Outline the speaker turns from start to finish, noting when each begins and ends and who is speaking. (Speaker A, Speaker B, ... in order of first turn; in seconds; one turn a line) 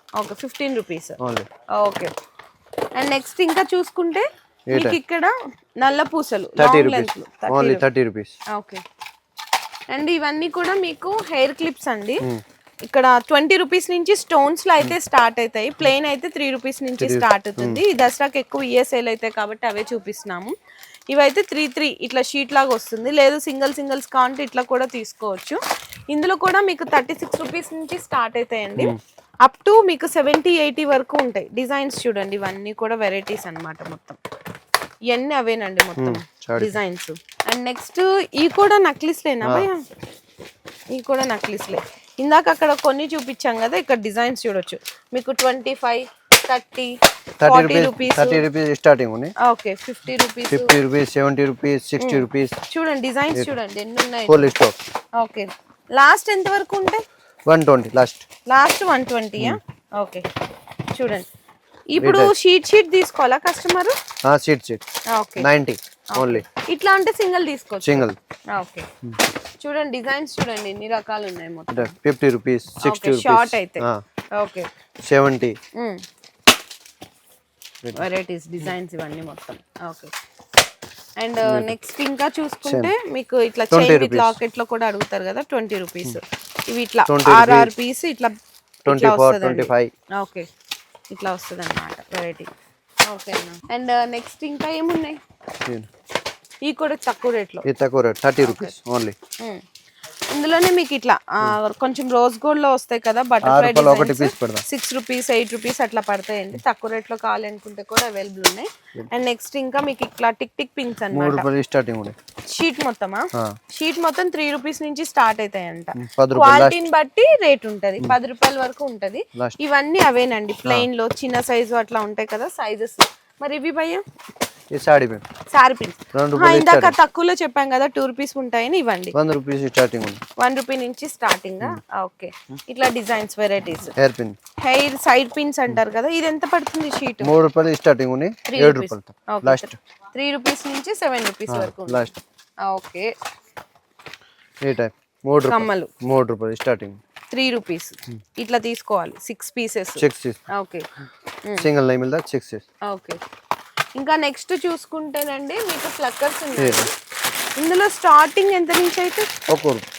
Speaker A: 0.2-1.2
Speaker B: 1.2-1.5
Speaker A: 1.7-2.1
Speaker A: 3.0-7.8
Speaker B: 4.7-5.0
Speaker B: 6.6-8.3
Speaker A: 8.5-8.8
Speaker A: 9.9-12.3
Speaker A: 12.8-20.5
Speaker B: 17.0-17.8
Speaker A: 21.1-34.2
Speaker A: 35.1-39.9
Speaker B: 36.0-36.8
Speaker B: 39.4-39.7
Speaker A: 40.9-48.4
Speaker B: 47.4-49.3
Speaker A: 49.4-50.7
Speaker B: 50.5-52.5
Speaker A: 52.0-54.5
Speaker B: 54.3-54.8
Speaker A: 55.2-57.0
Speaker B: 57.5-58.3
Speaker A: 58.5-60.3
Speaker A: 60.9-61.3
Speaker A: 61.9-64.0
Speaker B: 62.0-62.3
Speaker B: 64.2-64.8
Speaker A: 65.1-65.5
Speaker B: 65.4-66.5
Speaker A: 66.1-68.9
Speaker B: 67.8-68.2
Speaker A: 69.6-71.9
Speaker B: 71.7-74.0
Speaker A: 72.8-74.7
Speaker B: 75.0-75.6
Speaker A: 75.8-76.0
Speaker A: 77.9-80.1
Speaker A: 81.2-88.3
Speaker B: 81.5-81.7
Speaker B: 82.7-82.9
Speaker B: 83.7-84.4
Speaker B: 87.1-87.7
Speaker B: 88.9-89.9
Speaker A: 88.9-90.5
Speaker A: 91.1-92.5
Speaker A: 93.1-95.2
Speaker A: 96.6-97.7
Speaker B: 97.6-99.2
Speaker A: 98.4-98.7
Speaker A: 100.3-111.5
Speaker B: 103.4-104.6
Speaker B: 111.1-112.2
Speaker A: 112.5-124.0
Speaker B: 116.0-116.8
Speaker B: 124.7-125.2
Speaker A: 125.5-129.2
Speaker B: 126.1-127.0
Speaker B: 129.1-130.2
Speaker A: 130.4-133.9
Speaker B: 133.9-134.4
Speaker A: 134.6-137.3
Speaker B: 137.2-139.8
Speaker A: 138.5-142.1
Speaker B: 141.5-142.1
Speaker A: 142.6-143.1
Speaker B: 144.6-147.0
Speaker A: 145.5-145.9
Speaker A: 147.3-150.9
Speaker B: 150.0-150.4
Speaker B: 151.6-152.7
Speaker A: 152.8-153.2
Speaker A: 154.0-156.9
Speaker B: 156.6-156.9
Speaker A: 157.6-159.3
Speaker B: 159.5-159.8